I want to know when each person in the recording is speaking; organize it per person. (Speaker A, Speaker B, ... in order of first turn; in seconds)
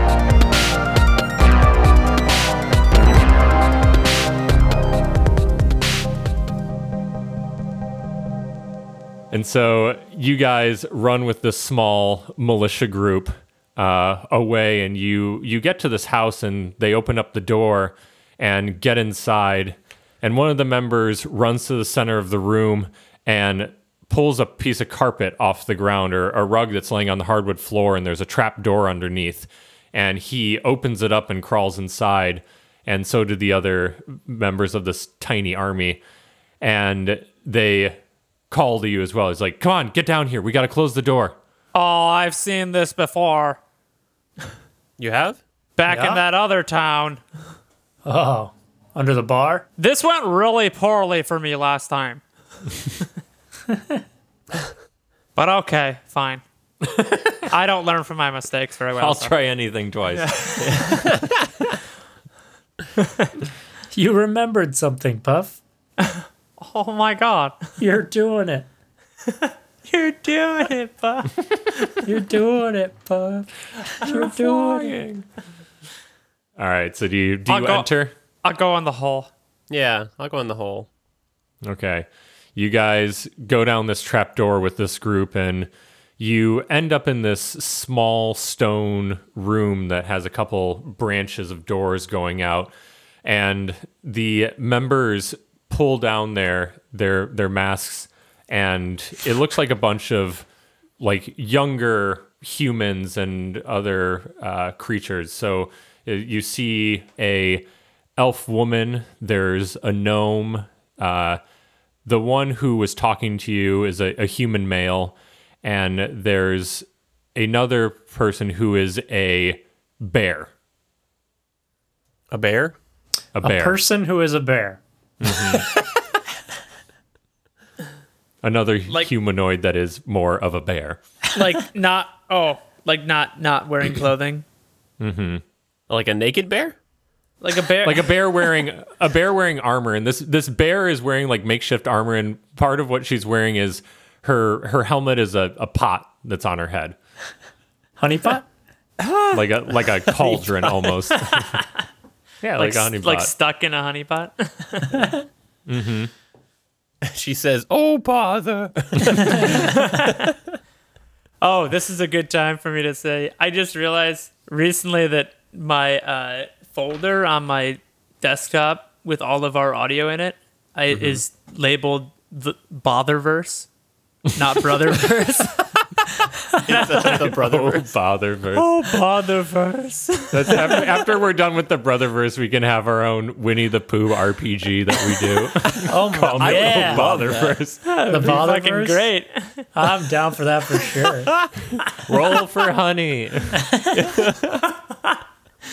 Speaker A: 9.3-36.0, 36.6-38.0, 38.5-41.4, 59.0-60.3, 76.6-78.1, 81.6-92.7, 93.2-100.5, 101.0-107.7, 108.2-111.4, 112.1-120.5, 123.4-123.8, 125.2-125.7, 128.4-131.0, 135.0-135.4, 137.8-147.0, 149.3-151.5, 152.4-153.3, 155.7-156.1, 170.9-171.2, 177.0-178.7, 180.3-187.8, 192.0-193.7
Speaker B: 41.7-43.6, 45.8-47.2, 49.8-52.2, 55.4-56.4, 57.4-59.4, 60.1-61.0, 66.0-67.7, 69.3-71.9, 77.5-77.9, 78.4-79.3, 131.3-134.4, 137.4-138.5, 149.0-149.4, 150.2-151.6, 152.6-155.2, 159.4-160.2, 161.4-173.7, 174.3-177.4, 178.5-180.9, 187.8-189.7
Speaker C: 45.0-45.4, 60.6-61.3, 74.1-75.1, 79.7-80.9, 122.3-122.8, 135.9-136.8, 157.0-160.3, 176.6-177.9, 186.4-187.6, 193.9-194.7
Speaker D: 45.9-46.2, 48.0-49.6, 53.7-54.0, 63.9-65.6, 67.8-68.7, 72.0-75.0, 123.4-124.8, 125.3-125.6, 148.0-148.5, 185.9-187.2, 188.1-189.1, 189.7-191.3